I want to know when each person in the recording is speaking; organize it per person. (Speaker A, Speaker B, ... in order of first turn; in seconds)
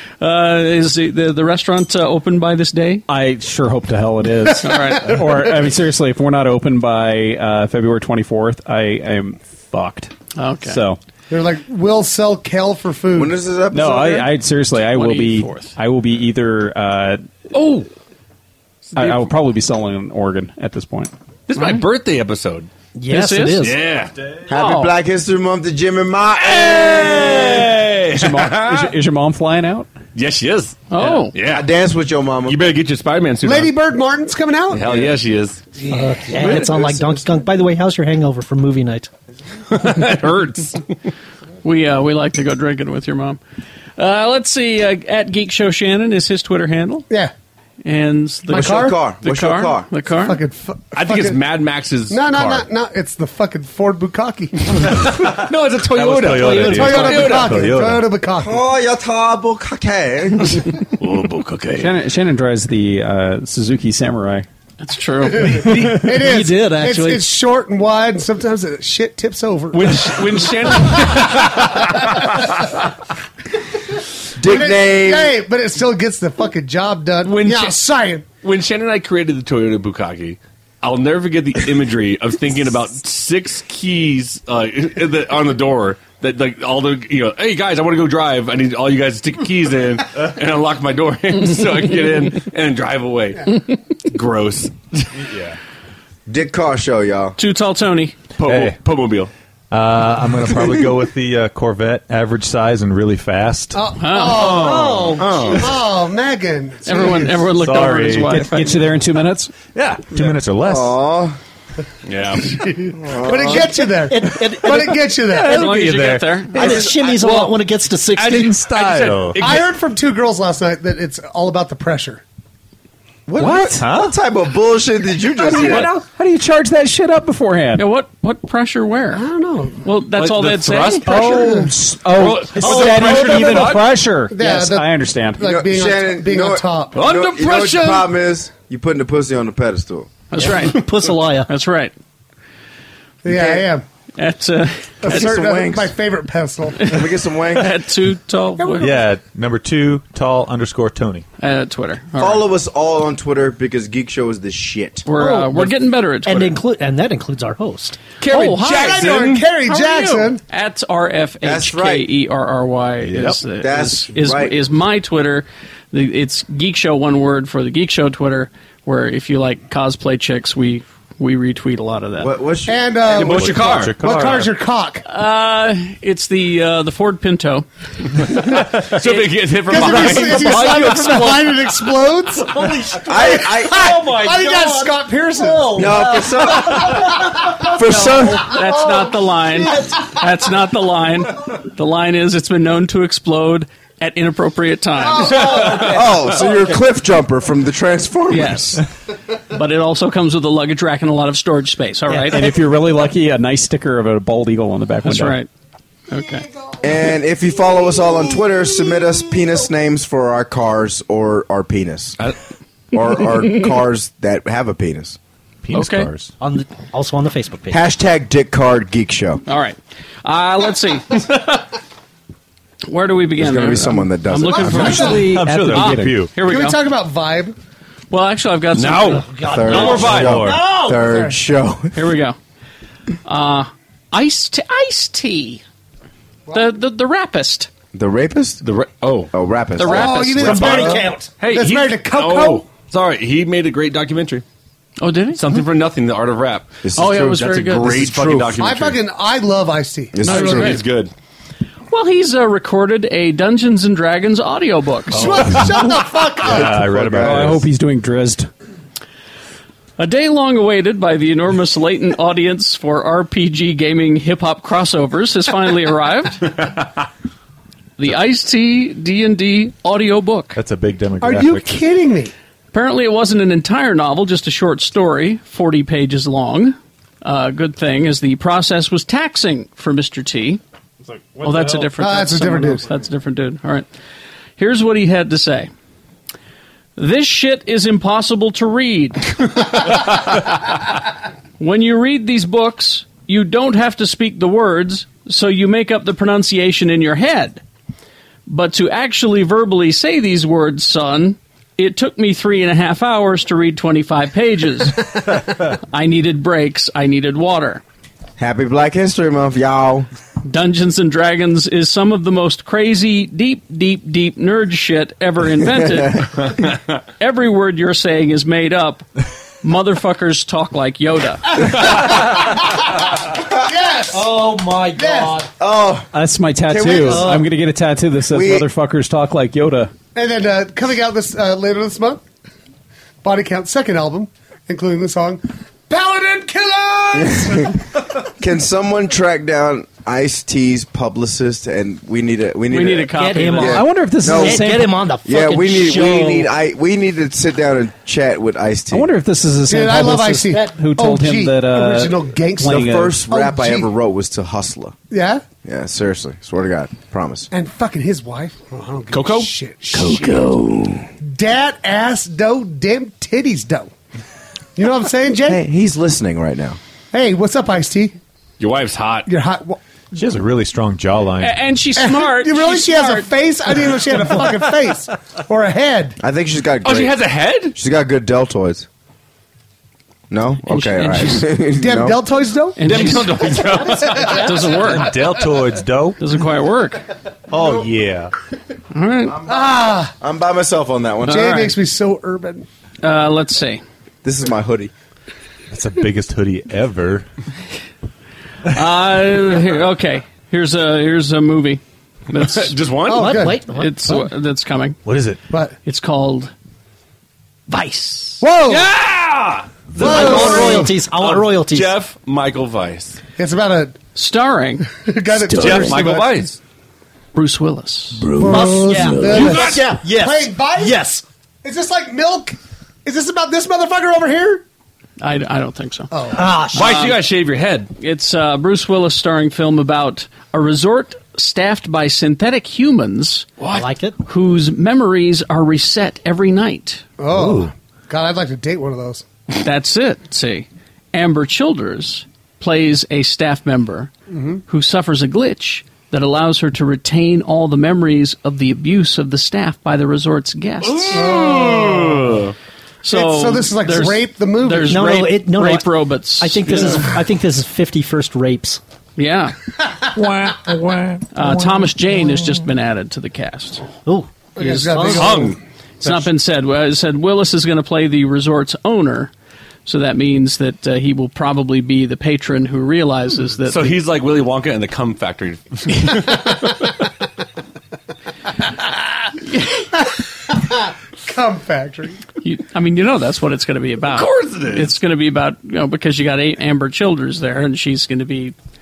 Speaker A: 0.2-3.0, 4.6-5.2, 10.3-10.8, 14.8-15.7, 21.5-21.9, 23.1-23.7, 24.5-24.9, 30.9-31.3, 41.6-43.4, 44.0-47.1, 47.8-50.4, 64.8-65.8, 97.4-98.3, 104.0-104.6, 106.8-108.8, 115.3-117.0, 127.8-129.2, 129.8-131.3, 140.3-141.9, 144.2-145.4, 146.8-149.0, 151.4-152.4, 155.1-156.6, 158.2-172.3, 175.1-177.7, 178.2-180.9, 188.4-195.8, 198.3-198.8, 199.5-202.6, 205.0-205.5, 206.1-206.4, 215.7-216.1, 219.4-221.6, 222.9-226.8, 228.1-230.1, 231.9-232.4, 233.2-235.6, 236.5-237.7, 239.8-240.8, 245.0-245.5, 246.9-247.9, 250.3-250.8, 251.9-255.7, 260.0-266.6, 268.0-270.6, 272.7-280.6, 281.4-283.9, 284.6-285.7, 286.9-290.4, 291.6-297.6, 298.5-307.8, 310.4-316.7, 317.2-319.1, 319.6-322.1, 342.7-343.8, 371.4-373.3, 380.7-381.5, 382.8-385.3, 386.2-387.1, 388.9-389.4, 391.3-391.8, 393.0-393.8, 398.7-402.9, 403.5-405.0, 405.8-406.5, 407.7-408.4, 414.1-414.9, 417.3-418.3, 425.2-427.2, 428.0-433.5, 434.2-437.0, 439.5-444.1, 444.7-451.4, 453.0-457.1, 459.2-459.5, 461.3-463.8, 466.0-469.3, 469.9-474.0, 482.4-488.5
Speaker B: 3.1-10.1, 10.6-11.0, 13.7-17.2, 18.9-21.1, 28.1-29.9, 61.8-64.5, 108.3-109.5, 123.4-124.0, 125.4-127.9, 131.0-135.4, 202.3-205.4, 225.2-226.2, 257.1-258.5, 326.1-329.9, 343.6-344.9, 348.9-353.2
Speaker C: 11.3-13.4, 33.4-34.9, 36.5-36.9, 48.5-49.0, 50.2-51.4, 52.1-55.1, 56.5-58.6, 65.4-72.5, 74.4-78.2, 103.7-107.5, 112.5-115.8, 119.4-122.2, 129.1-129.8, 131.1-131.7, 134.3-136.9, 143.2-143.8, 145.0-146.9, 148.6-148.9, 158.5-160.4, 172.7-175.0, 179.7-187.6, 195.1-195.8, 224.4-225.3, 226.4-227.6, 239.8-242.7, 248.6-250.8, 255.1-256.8, 271.2-272.3, 282.0-282.9, 323.4-325.5, 330.1-332.2, 333.2-337.8, 349.7-353.9, 355.1-355.4, 357.5-360.5, 361.2-363.9, 364.8-365.6, 367.1-368.1, 369.2-369.8, 372.0-376.2, 381.8-384.7, 389.5-390.1, 391.3-392.7, 403.1-403.6, 405.5-405.8, 408.4-408.9, 410.0-410.9, 413.4-414.0, 414.9-416.4, 418.4-421.1, 421.6-424.6, 426.1-426.5, 437.2-439.2, 444.3-444.6, 451.1-452.4, 453.1-455.1, 464.6-465.6, 479.9-482.2
Speaker D: 13.1-14.3, 24.5-27.7, 31.4-32.7, 34.7-35.1, 36.5-37.0, 48.5-49.9, 58.3-60.7, 74.4-75.4, 96.3-97.4, 105.2-105.7, 110.6-111.4, 113.0-113.8, 123.3-125.9, 135.4-140.1, 143.3-143.7, 145.0-145.9, 146.8-147.7, 152.2-155.1, 161.4-162.1, 163.6-164.6, 172.2-173.1, 183.0-184.0, 185.7-188.6, 195.5-198.7, 206.8-212.2, 212.9-215.2, 217.7-219.4, 223.4-225.1, 229.4-231.9, 237.9-238.6, 239.3-241.0, 246.8-248.6, 250.1-250.8, 256.4-257.6, 308.4-310.1, 325.6-326.1, 326.7-327.4, 328.3-328.7, 337.1-337.8, 338.4-349.1, 352.6-354.9, 355.6-357.5, 365.4-366.8, 376.2-378.9, 380.3-382.2, 389.2-391.6, 394.2-394.9
Speaker E: 17.5-17.9, 18.9-19.3, 21.5-22.7, 23.6-24.1, 26.4-28.9, 30.1-31.7, 32.4-33.7, 34.7-35.7, 39.7-40.8, 50.9-52.7, 54.8-57.6, 60.5-61.9, 65.6-66.0, 69.7-72.5, 77.2-77.8, 78.4-95.2, 98.3-99.3, 104.3-105.5, 112.0-112.8, 116.7-117.5, 118.1-119.7, 130.1-131.5, 132.1-133.9, 136.9-138.1, 158.2-159.5, 173.1-174.0, 178.5-180.7, 195.4-195.9, 228.7-230.4, 238.6-239.3, 240.4-240.8, 241.4-244.4, 245.3-249.0, 250.2-251.1, 359.1-359.5, 368.6-369.3, 376.8-377.8, 382.8-384.7, 402.3-403.5, 408.6-413.2, 415.5-416.6, 419.2-419.9, 426.7-427.9, 433.6-433.9, 450.8-452.5, 460.4-461.2, 465.1-465.6, 473.6-476.7, 484.1-485.0
Speaker F: 22.9-23.8, 35.9-39.1, 56.3-57.1, 65.8-67.3, 104.4-105.5, 114.0-115.1, 116.5-118.7, 132.6-133.8, 140.4-141.5, 155.1-158.0, 180.1-181.5, 182.4-190.0, 216.4-217.8, 229.3-231.3, 240.5-241.3, 324.1-325.5, 327.0-327.5, 343.1-346.5, 403.1-404.2, 410.0-412.0, 415.6-415.9, 418.3-421.2, 426.3-426.8, 433.7-434.2, 454.9-458.8, 464.1-465.5
Speaker G: 55.8-58.1, 95.2-95.5, 98.5-98.8, 99.7-103.8, 107.5-108.4, 109.7-111.0, 115.5-116.3, 118.3-119.6, 123.8-124.1, 148.8-151.2, 163.1-163.3, 173.2-174.5, 215.6-216.3, 225.1-226.3, 230.1-230.6, 256.4-257.6, 270.5-271.8, 370.1-371.6, 384.8-386.2, 387.5-388.3, 395.7-397.2, 405.0-405.4